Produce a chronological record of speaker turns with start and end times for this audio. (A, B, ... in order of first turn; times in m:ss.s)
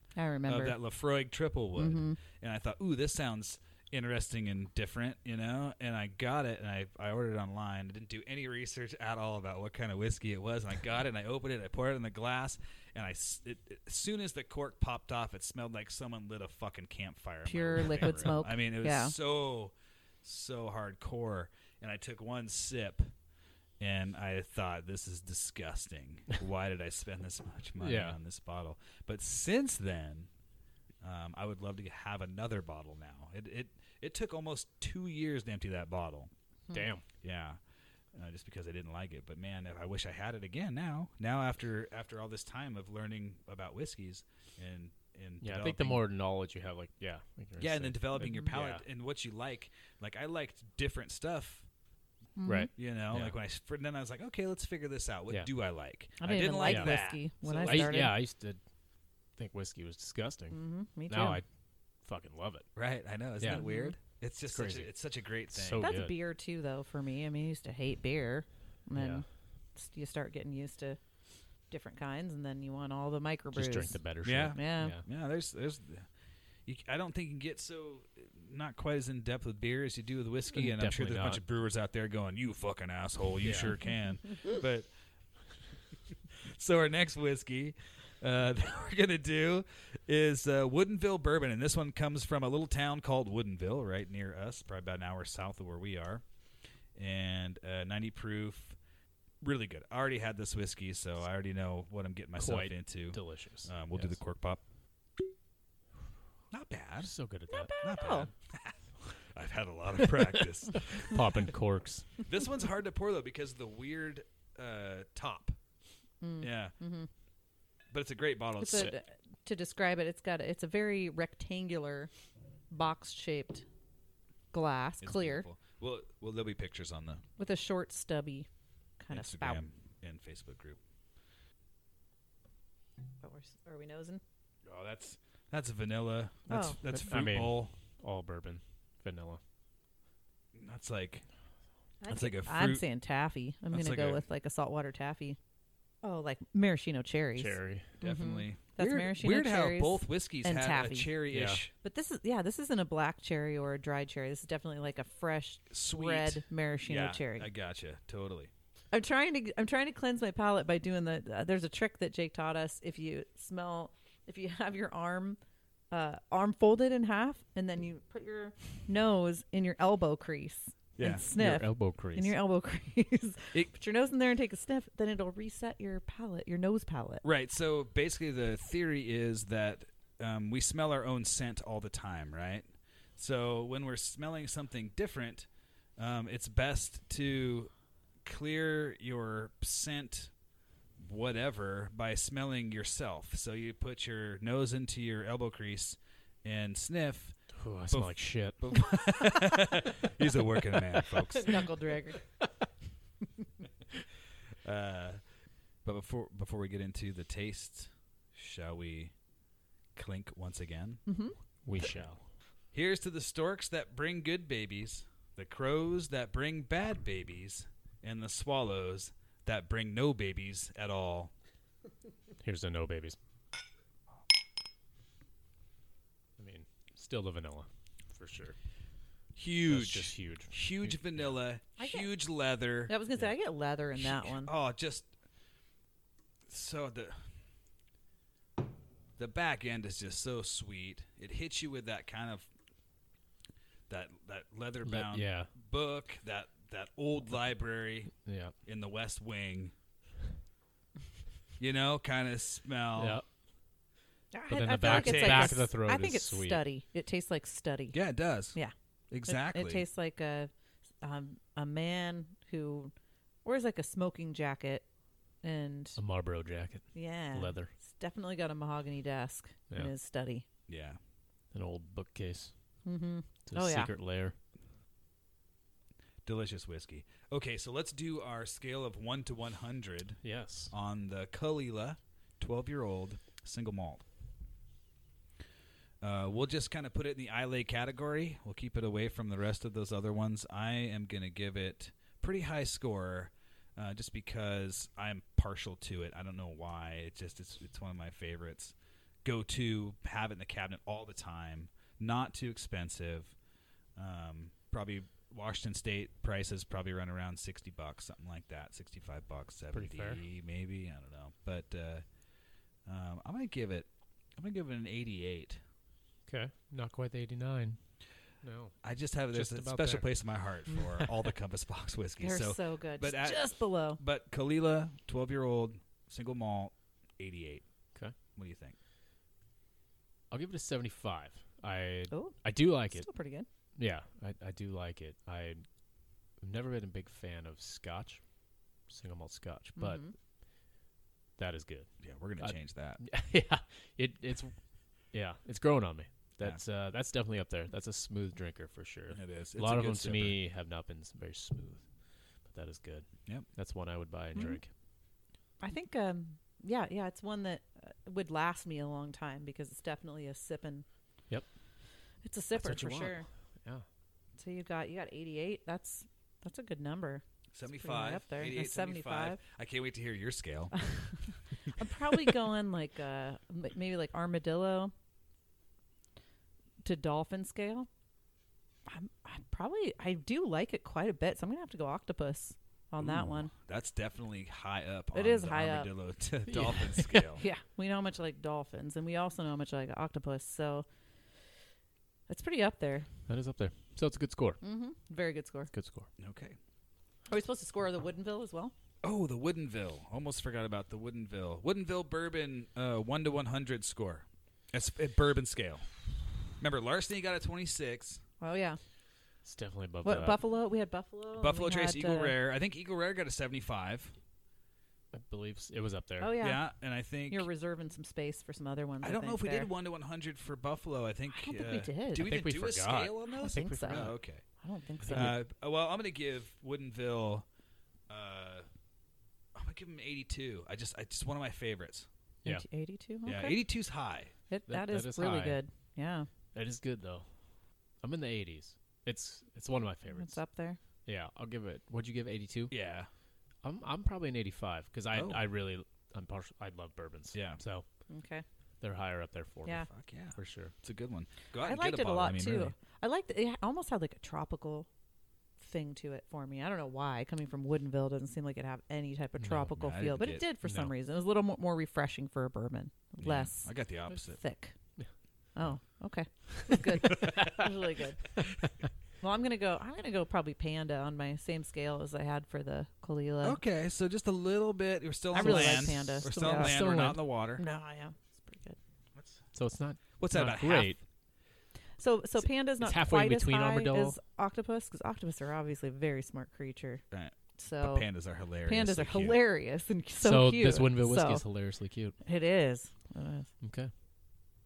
0:00.2-0:00.8 A
0:00.5-0:23.1 B
0:01.8-0:02.2 A
0:17.4-0:19.2 A
0:23.8-0:30.3 B
0:27.8-0:28.2 C
0:31.0-0:36.3 B
0:36.7-0:37.0 C
0:37.2-0:37.6 B
0:38.1-0:46.0 B
0:45.4-0:48.8 C
0:47.6-0:51.7 B
0:48.2-0:48.5 A
0:52.4-0:52.7 A
0:52.4-0:53.4 C
0:52.8-0:58.1 B
0:56.2-0:58.1 A
0:56.6-0:57.0 C
0:57.6-0:58.6 C
0:59.4-1:01.4 C
1:00.5-1:01.4 A
1:02.0-1:02.7 C
1:02.8-1:05.9 B
1:03.4-1:03.9 A
1:04.5-1:04.9 C
1:05.5-1:06.1 C
1:05.8-1:11.0 A
1:09.0-1:09.2 C
1:11.7-1:15.0 A
1:13.5-1:15.0 C
1:14.2-1:16.1 B
1:16.6-1:24.9 B
1:20.5-1:21.4 C
1:23.4-1:23.7 C
1:26.3-1:36.2 B
1:37.0-1:38.8 B
1:39.4-1:44.6 B
1:42.4-1:44.2 C
1:46.5-1:47.1 B
1:47.0-1:47.7 C
1:47.5-1:48.3 A
1:47.8-1:51.2 B
1:50.3-1:52.2 C
1:52.2-1:55.6 B
1:56.2-1:57.1 A
1:56.4-1:56.7 B
1:57.9-1:58.9 B
1:58.6-2:02.1 A
2:02.7-2:03.6 A
2:04.5-2:05.5 A
2:05.0-2:07.2 B
2:07.4-2:08.5 A
2:09.0-2:09.6 A
2:09.1-2:10.8 B
2:13.2-2:14.2 A
2:14.6-2:17.7 B
2:16.5-2:16.8 A
2:16.8-2:19.4 C
2:20.5-2:21.2 B
2:22.0-2:25.4 A
2:22.1-2:22.8 B
2:23.7-2:24.2 B
2:26.0-2:31.1 A
2:27.4-2:27.9 C
2:28.0-2:31.7 B
2:31.3-2:31.6 C
2:31.8-2:37.5 A
2:35.7-2:38.5 B
2:38.9-2:45.4 A
2:45.9-2:57.2 A
2:51.0-2:51.3 B
2:51.3-2:52.3 C
2:57.2-3:05.5 B
3:06.0-3:07.7 B
3:08.2-3:10.3 B
3:11.0-3:17.4 B
3:17.6-3:18.6 C
3:17.9-3:21.6 B
3:21.3-3:22.2 A
3:24.6-3:25.2 B
3:25.8-3:29.1 B
3:29.9-3:31.0 B
3:31.1-3:31.4 A
3:31.6-3:32.2 C
3:32.7-3:41.3 B
3:42.4-3:43.2 C
3:46.4-3:48.6 C
3:49.4-3:52.9 B
3:49.6-3:51.3 C
3:51.8-3:52.1 A
3:52.9-3:54.5 A
3:54.0-3:55.1 B
3:56.5-3:57.2 B
3:59.2-4:02.5 B
4:03.9-4:08.1 B
4:04.8-4:05.5 C
4:08.2-4:08.5 C
4:08.6-4:09.7 B
4:11.6-4:13.2 B
4:13.0-4:13.2 C
4:14.3-4:18.0 A
4:14.5-4:16.6 C
4:14.8-4:15.6 B
4:17.9-4:18.6 B
4:19.1-4:19.8 B
4:19.3-4:20.5 A
4:21.0-4:22.9 A
4:23.4-4:24.9 A
4:25.4-4:26.0 A
4:26.0-4:27.7 C
4:26.9-4:30.4 A
4:30.7-4:31.0 B
4:31.5-4:32.5 C
4:32.8-4:33.9 A
4:33.5-4:34.4 C
4:36.2-4:44.0 B
4:40.2-4:40.7 C
4:46.0-5:03.3 B
5:04.0-5:12.0 B
5:09.7-5:10.2 C
5:12.8-5:15.6 B
5:16.3-5:17.8 C
5:18.4-5:18.7 C
5:18.8-5:27.6 B
5:19.3-5:21.3 C
5:22.2-5:24.0 A
5:28.4-5:28.8 B
5:30.3-5:33.1 C
5:32.1-5:33.5 A
5:33.8-5:35.6 C
5:36.4-5:38.2 C
5:38.9-5:40.0 C
5:39.8-5:40.1 A
5:41.4-5:44.5 C
5:42.0-5:43.0 B
5:45.1-5:51.8 C
5:49.1-5:50.4 B
5:52.4-5:54.7 C
5:54.4-5:54.6 A
5:55.6-6:00.8 A
6:02.2-6:03.2 A
6:02.6-6:03.8 C
6:04.4-6:09.4 A
6:07.5-6:10.7 B
6:10.7-6:14.9 A
6:16.8-6:17.9 A
6:18.9-6:23.5 A
6:23.0-6:27.4 B
6:25.1-6:25.9 A
6:26.5-6:27.4 C
6:27.4-6:30.9 A
6:32.3-6:33.1 A
6:33.3-6:34.6 C
6:34.6-6:35.7 A
6:35.7-6:36.1 C
6:36.2-6:36.6 B
6:37.3-6:38.7 A
6:39.0-6:45.9 B
6:46.5-6:48.2 B
6:48.4-6:48.8 A
6:49.4-6:50.4 C
6:50.0-6:52.3 A
6:51.4-6:54.1 B
6:55.1-6:56.3 C
6:56.2-6:56.6 A
6:56.4-6:57.5 B
6:57.3-6:59.7 A
6:59.0-7:04.4 B
7:01.3-7:02.4 A
7:02.1-7:04.2 C
7:03.3-7:05.4 A
7:05.0-7:05.4 C
7:05.1-7:07.4 B
7:08.1-7:08.7 B
7:09.5-7:12.1 B
7:12.4-7:13.6 A
7:13.2-7:14.3 B
7:14.5-7:16.3 A
7:14.7-7:15.6 C
7:16.5-7:17.3 C
7:18.0-7:20.4 C
7:20.1-7:20.8 A
7:21.0-7:22.7 C
7:22.7-7:23.1 B
7:23.6-7:27.8 C
7:25.1-7:25.4 B
7:27.3-7:27.6 B
7:28.1-7:28.4 A
7:28.8-7:30.7 C
7:29.9-7:32.7 B
7:31.6-7:34.9 A
7:35.6-7:44.7 A
7:39.4-7:39.7 C
7:39.7-7:40.4 B
7:40.6-7:40.9 C
7:43.2-7:44.4 B
7:45.6-7:48.3 A
7:46.7-7:47.6 C
7:48.4-7:48.7 C
7:49.2-7:53.6 A
7:53.4-7:57.6 B
7:55.3-7:56.8 A
7:55.3-7:57.2 C
7:57.6-7:58.8 A
7:59.5-8:01.0 C
8:00.2-8:01.0 B
8:02.0-8:07.0 A
8:02.7-8:04.2 C
8:07.1-8:09.4 B
8:07.6-8:08.1 A
8:08.6-8:11.4 A
8:10.2-8:12.2 C
8:12.2-8:13.5 A
8:13.6-8:13.9 C